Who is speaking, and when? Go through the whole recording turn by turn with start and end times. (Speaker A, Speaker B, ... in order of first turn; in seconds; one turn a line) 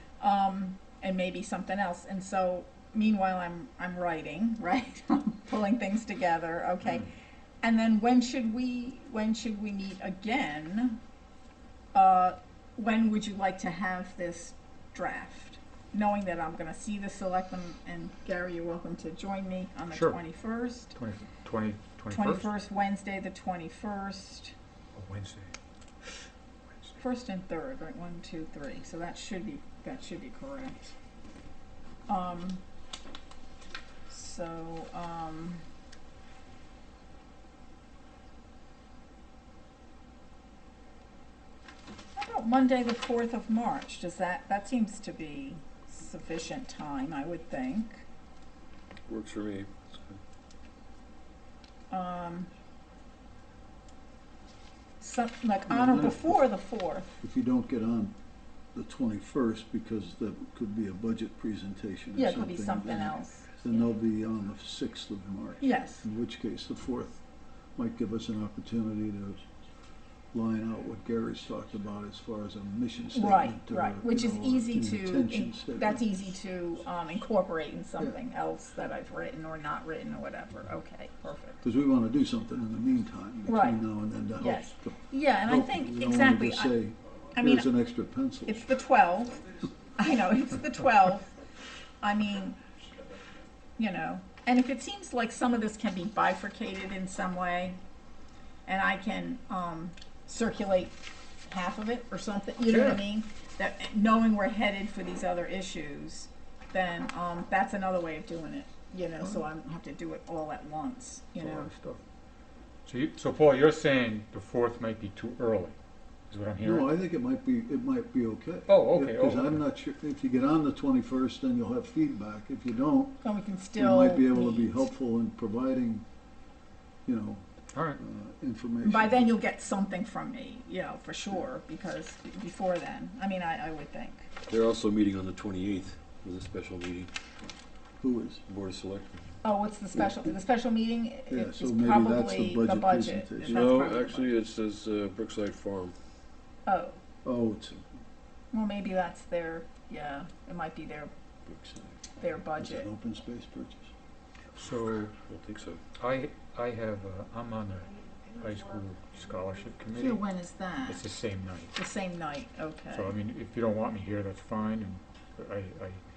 Speaker A: 0.2-11.0
Speaker A: 11.9-20.9
Speaker B: 19.9-20.2
Speaker B: 20.9-22.5
Speaker A: 22.1-24.5
Speaker B: 24.9-25.5
Speaker B: 26.7-27.0
Speaker A: 27.0-30.9
Speaker A: 32.1-32.6
Speaker A: 34.1-35.6
Speaker A: 42.1-48.0
Speaker C: 49.1-50.2
Speaker A: 51.9-52.5
Speaker A: 55.0-57.1
Speaker D: 55.7-56.5
Speaker D: 57.2-58.1
Speaker D: 58.7-67.1
Speaker A: 62.1-63.6
Speaker A: 65.6-66.0
Speaker D: 67.8-69.4
Speaker D: 70.3-76.0
Speaker A: 73.1-81.6
Speaker D: 81.6-88.6
Speaker A: 83.5-83.8
Speaker A: 84.4-86.8
Speaker A: 87.3-87.7
Speaker A: 88.4-89.4
Speaker A: 90.0-91.3
Speaker A: 92.0-92.6
Speaker A: 93.8-97.8
Speaker A: 98.7-111.7
Speaker B: 102.7-103.0
Speaker B: 111.4-112.0
Speaker B: 112.8-115.7
Speaker B: 116.3-116.9
Speaker D: 116.6-123.2
Speaker B: 118.7-119.6
Speaker A: 123.2-124.9
Speaker D: 123.7-126.0
Speaker D: 127.0-127.4
Speaker B: 127.7-128.0
Speaker D: 128.0-129.3
Speaker A: 128.8-134.3
Speaker C: 134.5-137.1
Speaker D: 138.0-138.4
Speaker C: 138.4-139.3
Speaker A: 139.4-144.3
Speaker D: 141.3-143.7
Speaker C: 143.4-145.9
Speaker A: 146.7-147.0
Speaker D: 147.2-147.9
Speaker A: 148.5-151.1
Speaker A: 152.2-152.9
Speaker D: 152.5-153.9
Speaker B: 154.6-155.1
Speaker C: 155.2-155.8
Speaker B: 156.0-160.2
Speaker A: 159.9-161.0
Speaker B: 160.8-161.8
Speaker A: 161.8-163.1
Speaker B: 162.9-166.0